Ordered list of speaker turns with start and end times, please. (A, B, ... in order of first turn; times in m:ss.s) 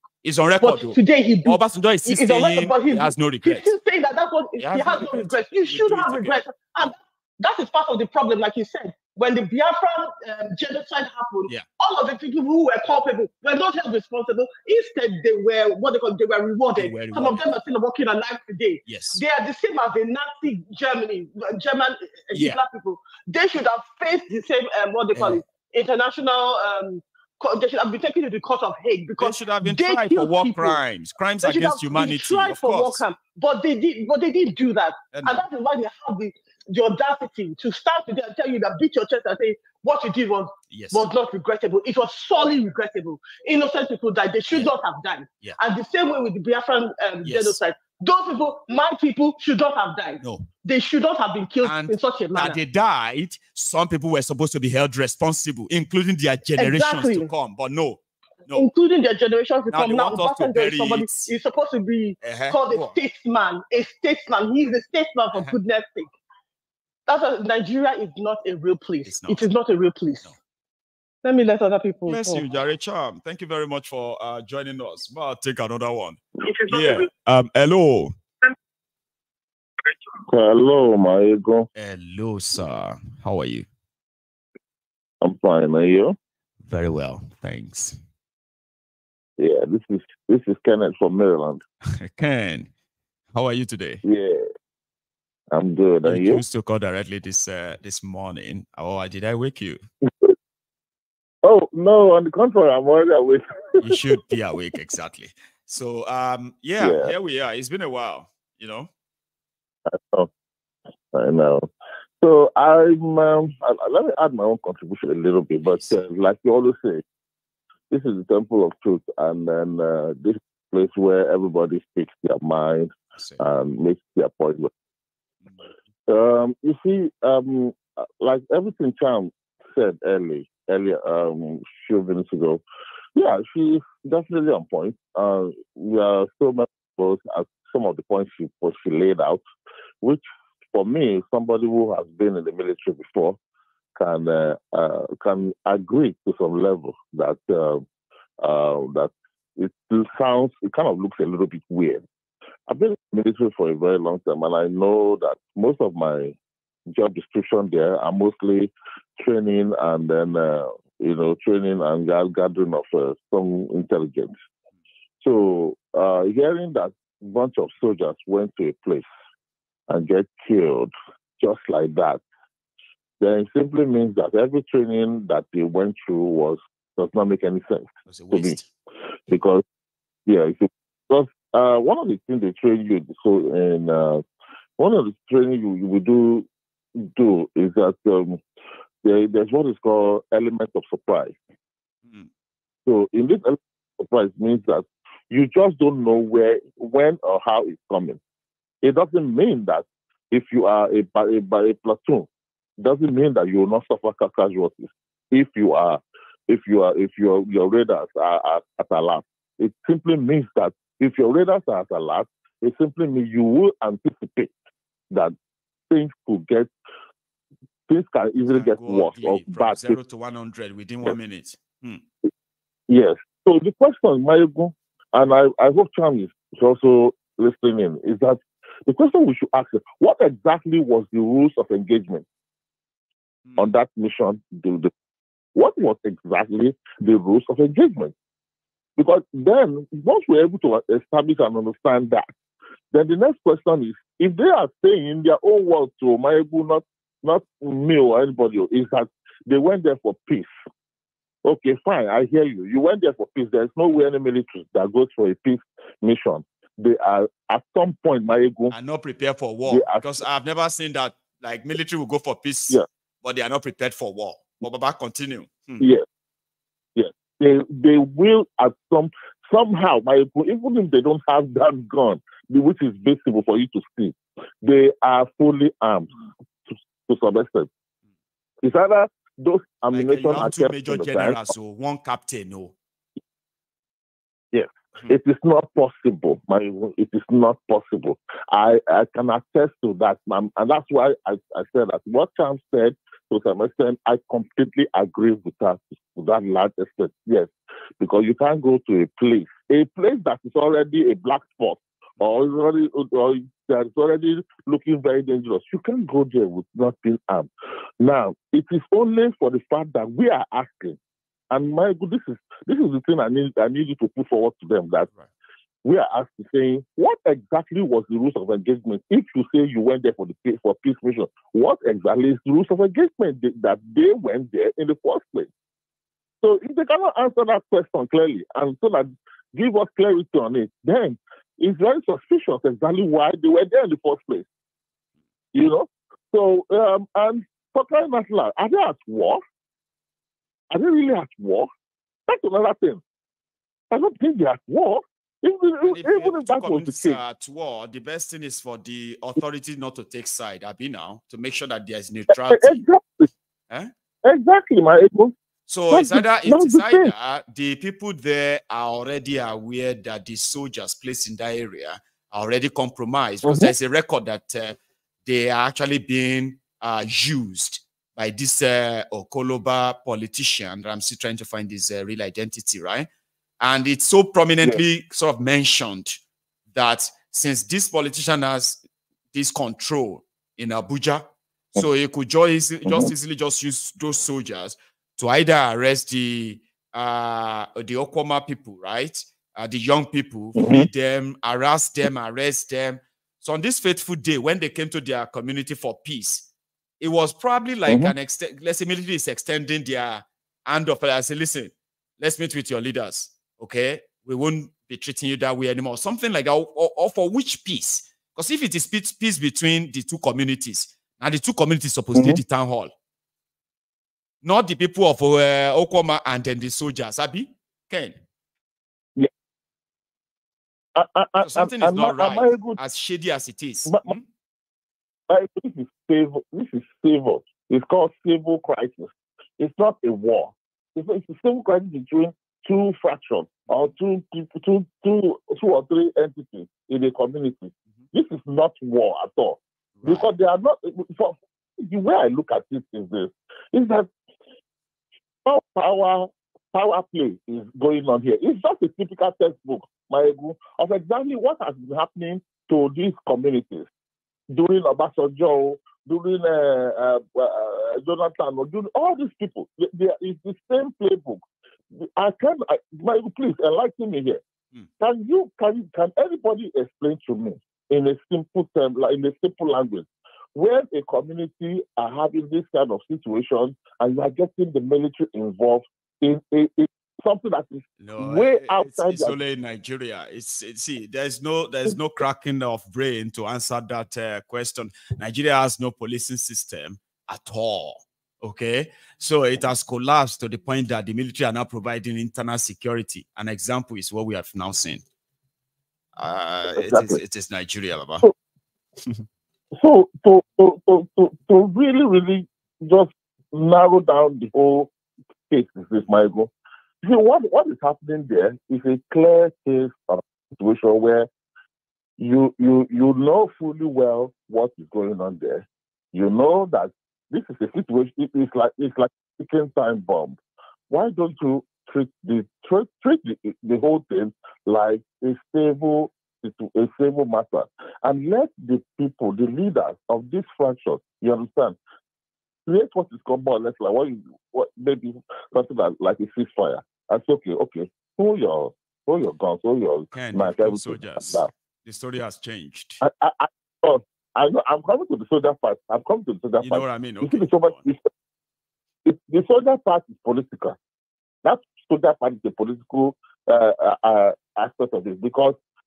0:00.2-0:03.7 A
0:00.6-0:30.8 B
0:04.6-0:06.9 A
0:16.8-0:17.6 A
0:18.8-0:19.2 A
0:22.3-0:22.6 A
0:25.1-0:25.4 A
0:29.2-0:33.0 A
0:31.4-0:52.6 B
0:35.1-0:35.4 A
0:40.7-0:41.1 A
0:47.2-0:47.6 A
0:50.2-0:50.5 A
0:51.6-0:58.7 A
0:56.6-0:57.3 B
0:58.5-1:06.1 B
0:59.7-1:01.3 A
1:02.2-1:03.0 A
1:07.1-1:10.3 B
1:09.0-1:09.5 A
1:11.2-1:12.4 B
1:12.0-1:18.1 A
1:20.3-1:21.7 C
1:21.7-1:23.6 A
1:25.2-1:26.2 C
1:26.6-1:28.0 A
1:29.4-1:31.6 C
1:32.0-1:32.7 A
1:33.3-1:34.0 A
1:34.0-1:34.4 C
1:35.5-1:36.4 C
1:36.0-1:39.8 A
1:41.4-1:44.0 C
1:43.8-1:48.9 A
1:46.8-1:47.1 C
1:49.9-1:50.3 C
1:51.1-1:51.7 C
1:52.2-1:57.0 C
1:55.6-1:56.0 A
1:57.9-2:04.7 C
2:06.1-2:12.6 C
2:13.1-2:19.4 C
2:20.0-2:23.4 C
2:24.0-2:27.8 C
2:28.4-2:32.0 C
2:32.7-2:36.4 C
2:36.9-2:44.3 C
2:45.2-2:49.0 C
2:49.9-2:52.2 C
2:53.2-2:58.6 C
2:58.1-2:58.7 A
2:59.3-2:59.6 C
3:00.2-3:04.2 C
3:04.8-3:08.4 C
3:09.0-3:11.3 C
3:12.8-3:18.2 C
3:18.8-3:22.3 C
3:22.8-3:34.5 C
3:35.9-3:36.7 C
3:37.9-3:40.0 C
3:38.5-3:42.0 A
3:42.9-3:52.2 C
3:53.6-3:54.9 C
3:55.5-3:58.1 C
3:59.0-4:02.3 C
4:02.9-4:10.5 C
4:11.4-4:18.7 C
4:18.7-4:25.9 A
4:19.7-4:20.2 C
4:25.8-4:26.0 C
4:27.0-4:36.1 C
4:36.7-4:37.7 C
4:38.6-4:41.4 C
4:39.9-4:42.7 A
4:44.5-5:11.0 C
5:11.5-5:15.1 C
5:15.8-5:25.5 C
5:26.4-5:34.4 C
5:35.5-5:39.4 C
5:40.7-5:41.7 C
5:42.3-5:43.0 C
5:43.9-5:47.2 C
5:45.9-5:52.8 A
5:52.3-5:53.3 C
5:54.2-5:55.3 C
5:55.7-6:13.1 A
5:55.9-5:57.1 C
6:03.4-6:03.7 C
6:13.6-6:16.2 A
6:16.7-6:18.8 A
6:19.3-6:21.2 A
6:21.7-6:36.5 A
6:22.8-6:23.1 C
6:30.6-6:30.9 C
6:37.0-6:52.9 A
6:37.9-6:38.1 C
6:54.4-6:58.2 A
7:01.0-7:02.8 C
7:01.4-7:04.2 A
7:03.9-7:04.1 C
7:05.3-7:24.1 C
7:20.0-7:20.2 A
7:25.4-7:33.9 C
7:34.5-7:41.4 C
7:41.9-7:44.4 C
7:45.0-7:59.4 C
7:58.0-8:15.0 A
8:16.2-8:18.2 A
8:16.8-8:17.2 C
8:19.7-8:24.9 C
8:25.5-8:26.5 C
8:27.0-8:31.3 C
8:32.2-8:40.4 C
8:40.9-8:51.8 C
8:52.6-9:01.5 C
9:00.1-9:03.0 A
9:03.0-9:08.1 C
9:06.6-9:07.8 A
9:09.0-9:10.8 C
9:11.4-9:15.6 C